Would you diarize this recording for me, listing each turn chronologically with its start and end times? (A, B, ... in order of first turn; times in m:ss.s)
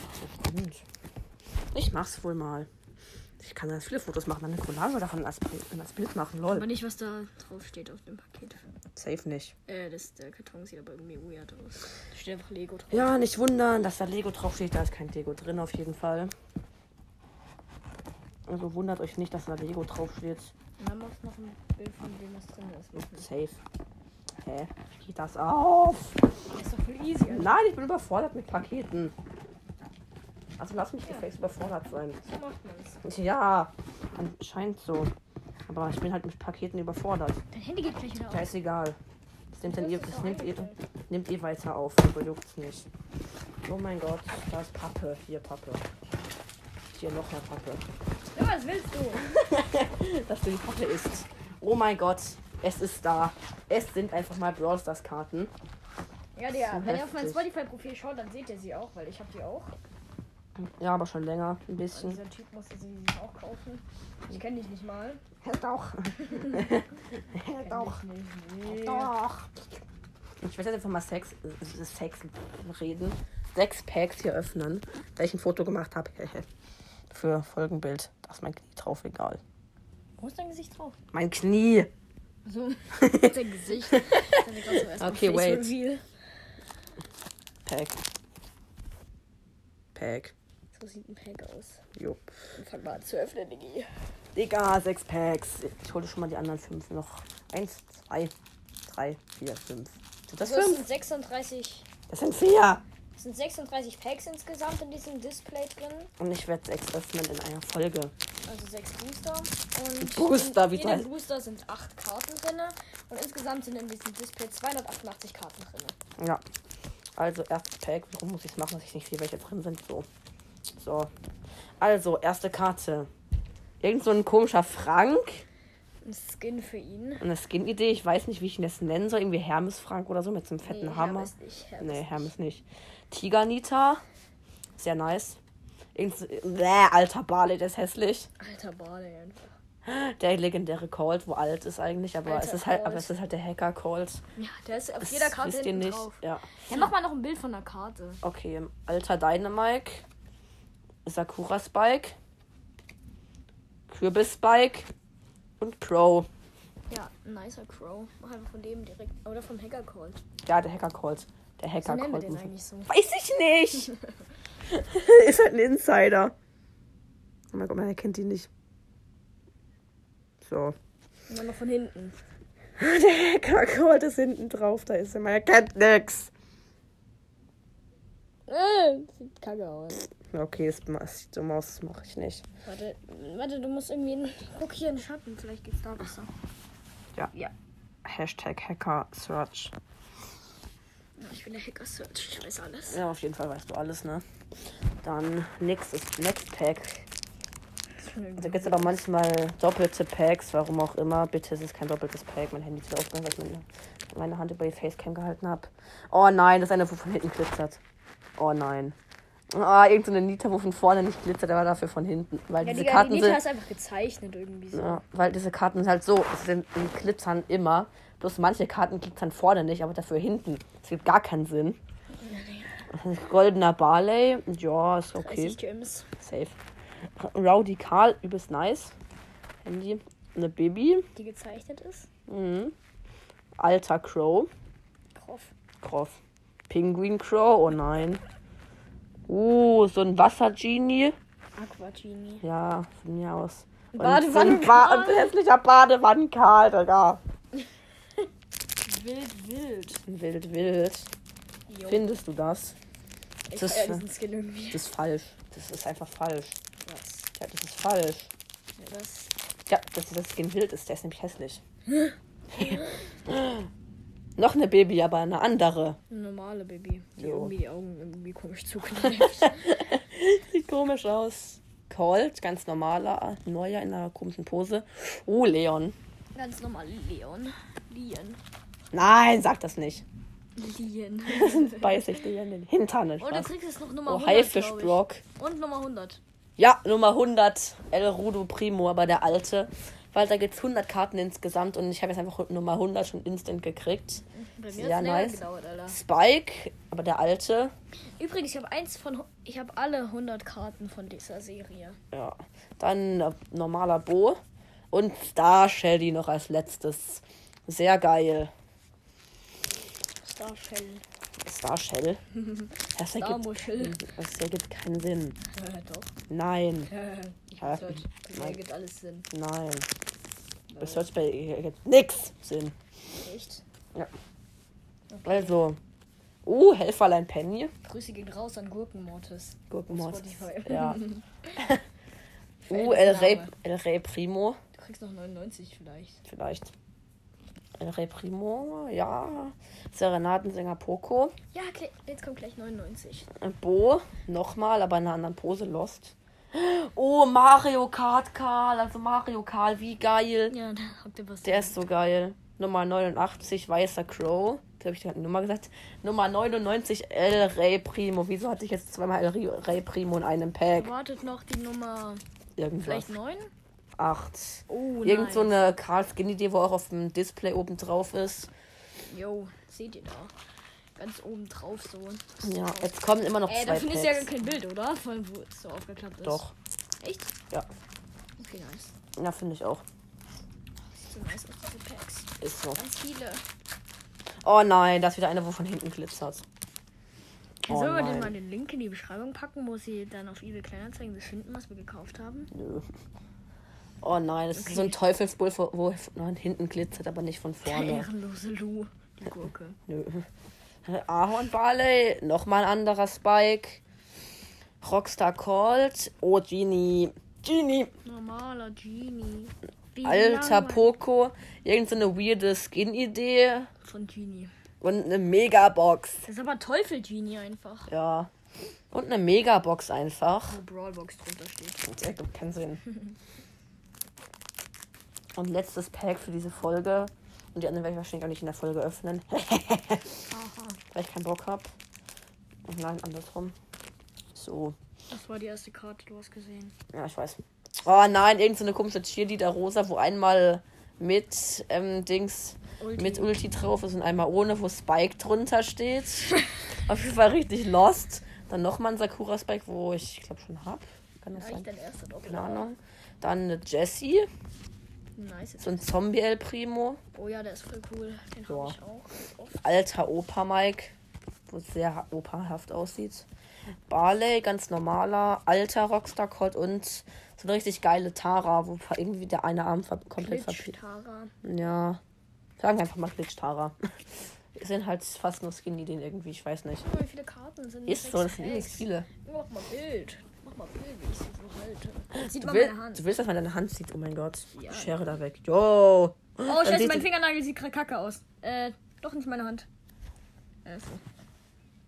0:00.1-0:00.8 A
0:01.7-0:02.7 A
0:03.4-0:06.7 A
0:06.5-0:08.6 B
0:09.0-0:09.6 A
0:09.7-0:13.1 B
0:12.9-0:16.3 A
0:18.5-0:20.5 A
0:20.8-0:23.3 B
0:23.0-0:23.6 A
0:24.4-0:26.2 A
0:26.5-0:27.6 B
0:27.3-0:29.1 A
0:30.6-0:32.2 A
0:31.0-0:31.3 B
0:32.2-0:33.0 B
0:33.0-0:35.1 A
0:35.7-0:37.4 A
0:37.5-0:38.5 B
0:38.3-0:39.0 A
0:39.5-0:42.9 A
0:39.7-0:40.8 B
0:43.6-0:45.9 A
0:46.9-0:47.8 A
0:48.3-0:49.3 B
0:49.2-0:55.5 A
0:56.4-0:59.8 B
0:56.6-0:57.5 A
1:00.6-1:02.2 A
1:01.9-1:05.2 B
1:05.4-1:08.0 A
1:06.3-1:06.7 B
1:07.4-1:09.2 B
1:08.6-1:09.5 A
1:10.4-1:16.5 A
1:17.1-1:19.4 A
1:20.2-1:21.0 B
1:21.1-1:21.9 A
1:22.5-1:26.0 B
1:22.9-1:23.4 A
1:23.9-1:25.8 A
1:27.7-1:28.0 A
1:30.0-1:30.3 A
1:30.7-1:31.8 B
1:32.0-1:32.6 A
1:32.6-1:33.9 B
1:34.4-1:38.3 A
1:38.9-1:40.9 A
1:40.4-1:41.9 B
1:42.1-1:42.8 A
1:43.2-1:46.1 B
1:46.2-1:48.1 A
1:48.5-1:56.0 B
1:50.0-1:51.1 A
1:57.2-2:00.1 A
2:00.7-2:01.1 A
2:01.8-2:03.1 A
2:03.8-2:05.4 A
2:06.0-2:07.2 B
2:07.2-2:14.0 A
2:10.7-2:12.3 B
2:14.8-2:15.4 A
2:16.0-2:18.3 A
2:18.4-2:19.5 B
2:19.8-2:24.2 A
2:22.2-2:23.1 B
2:24.4-2:28.2 B
2:25.0-2:26.9 A
2:28.2-2:30.0 A
2:31.1-2:32.2 A
2:33.9-2:34.9 A
2:35.6-2:36.3 A
2:36.9-2:40.2 B
2:40.5-2:43.9 A
2:41.8-2:42.9 B
2:44.7-2:46.3 A
2:47.5-2:48.5 A
2:50.4-2:50.8 A
2:51.3-2:52.2 B
2:52.8-2:56.3 A
2:58.5-3:00.1 B
3:00.3-3:02.4 A
3:02.6-3:06.3 B
3:08.0-3:09.7 A
3:11.2-3:13.0 B
3:12.9-3:14.2 A
3:15.0-3:17.1 A
3:18.0-3:19.0 B
3:18.4-3:27.8 A
3:28.4-3:29.0 A
3:29.5-3:33.4 A
3:32.6-3:35.0 B
3:34.7-3:41.8 A
3:42.2-3:42.8 B
3:42.9-3:45.6 A
3:45.2-3:46.1 B
3:46.2-3:46.6 A
3:47.2-3:48.9 A
3:49.6-3:51.1 A
3:51.2-3:52.1 B
3:52.3-3:52.7 A
3:53.6-3:54.5 A
3:55.2-3:55.5 B
3:55.8-3:58.2 A
3:59.3-4:01.1 A
4:01.6-4:02.4 B
4:02.4-4:07.2 A
4:03.9-4:05.3 B
4:08.9-4:10.0 B
4:10.1-4:11.1 A
4:11.7-4:12.1 B
4:11.8-4:12.8 A
4:13.5-4:14.9 B
4:13.6-4:14.0 A
4:14.7-4:16.6 A
4:16.8-4:17.3 B
4:17.4-4:18.3 A
4:18.8-4:19.3 B
4:19.7-4:21.6 A
4:22.5-4:23.7 A
4:24.4-4:26.0 A
4:26.1-4:29.6 B
4:27.2-4:27.5 A
4:29.2-4:36.0 A
4:36.4-4:38.4 B
4:38.9-4:40.0 A
4:40.6-4:42.2 B
4:41.3-4:43.5 A
4:43.2-4:46.2 B
4:44.0-4:45.2 A
4:46.6-4:54.2 A
4:54.4-4:56.0 B
4:54.7-4:57.7 A
4:58.2-5:02.0 B
5:02.1-5:04.4 A
5:04.9-5:08.5 A
5:10.2-5:11.0 B
5:11.4-5:12.2 A
5:12.6-5:14.0 B
5:13.0-5:15.4 A
5:15.5-5:16.1 B
5:16.3-5:16.9 A
5:16.9-5:19.3 B
5:17.6-5:18.6 A
5:19.3-5:19.9 A
5:20.7-5:21.0 B
5:20.8-5:22.8 A
5:23.2-5:23.6 B
5:25.1-5:25.6 B
5:25.2-5:25.8 A
5:26.4-5:27.7 A
5:27.8-5:31.2 B
5:29.7-5:31.8 A
5:32.7-5:34.6 A
5:32.7-5:33.5 B
5:34.7-5:36.2 B
5:36.2-5:36.7 A
5:37.8-5:41.4 A
5:41.5-5:43.3 B
5:43.4-5:50.6 A
5:50.5-5:51.8 B
5:51.4-6:00.9 A
6:00.8-6:02.2 B
6:02.6-6:03.1 A
6:02.8-6:03.5 B
6:04.0-6:08.5 A
6:04.7-6:05.7 B
6:09.1-6:10.3 B
6:11.0-6:12.9 B
6:12.4-6:14.4 A
6:13.5-6:16.4 B
6:16.2-6:16.5 A
6:17.0-6:17.3 B
6:18.4-6:18.9 B
6:19.2-6:19.8 A
6:21.1-6:23.4 B
6:22.4-6:22.8 A
6:24.4-6:26.4 A
6:27.6-6:32.5 B
6:27.7-6:28.4 A
6:32.5-6:32.8 A
6:34.0-6:38.1 A
6:34.6-6:35.0 B
6:37.6-6:39.8 B
6:39.9-6:40.3 A
6:40.8-6:43.8 A
6:44.8-6:47.9 A
6:48.0-6:51.0 B
6:50.0-6:53.7 A
6:53.8-6:54.5 B
6:54.8-6:56.2 A
6:56.2-6:57.9 B
6:57.9-6:58.3 A
6:58.9-7:00.6 A
7:00.5-7:01.9 B
7:01.9-7:02.8 A
7:05.4-7:10.2 A
7:10.3-7:10.8 B
7:10.9-7:11.7 A
7:12.7-7:13.6 A
7:14.4-7:14.8 A
7:15.1-7:16.7 B
7:16.9-7:31.7 A
7:22.8-7:23.4 B
7:31.4-7:32.7 B
7:32.3-7:34.3 A
7:35.2-7:35.8 B
7:35.6-7:37.0 A
7:37.1-7:39.6 B
7:38.5-7:38.8 A
7:39.6-7:40.9 A
7:41.5-7:43.3 A
7:43.9-7:50.7 A
7:50.2-7:51.3 B
7:51.4-7:52.0 A
7:52.6-7:53.8 A
7:54.5-7:56.9 A
7:56.8-8:03.2 B
7:57.9-7:59.1 A
8:02.1-8:07.1 A
8:04.5-8:05.1 B
8:06.4-8:09.7 B
8:10.6-8:11.0 B